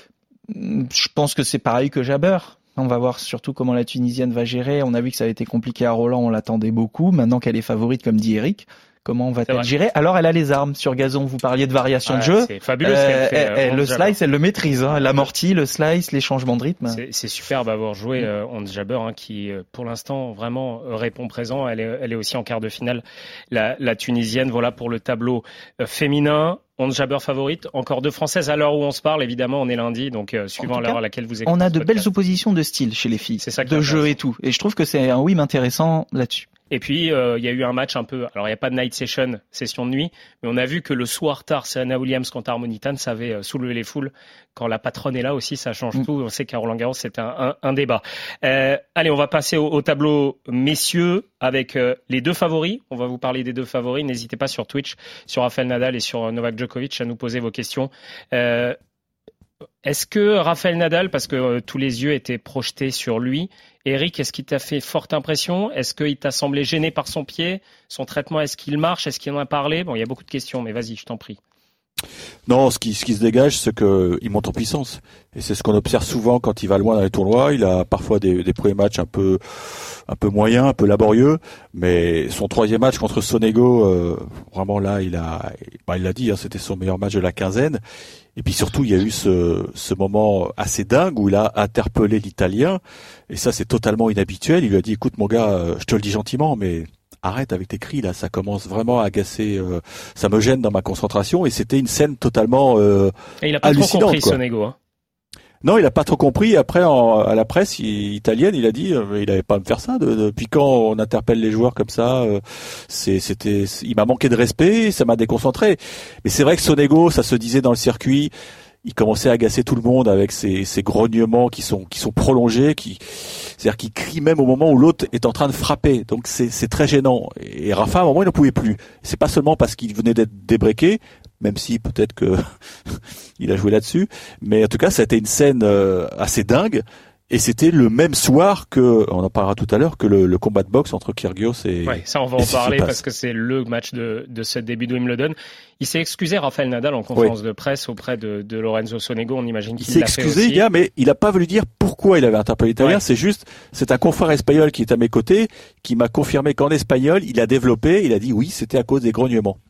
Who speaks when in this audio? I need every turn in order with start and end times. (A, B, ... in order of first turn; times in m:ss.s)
0:00.5-0:17.0 A
0:12.0-0:14.2 B
0:16.9-0:32.1 B
0:30.6-0:36.5 A
0:33.4-0:34.2 B
0:36.7-0:58.8 B
0:59.8-1:11.4 B
1:12.5-1:27.8 C
1:28.4-1:44.4 C
1:43.4-1:44.8 B
1:45.6-1:58.3 C
1:58.8-2:23.0 C
2:21.8-2:30.6 B
2:29.8-2:39.6 C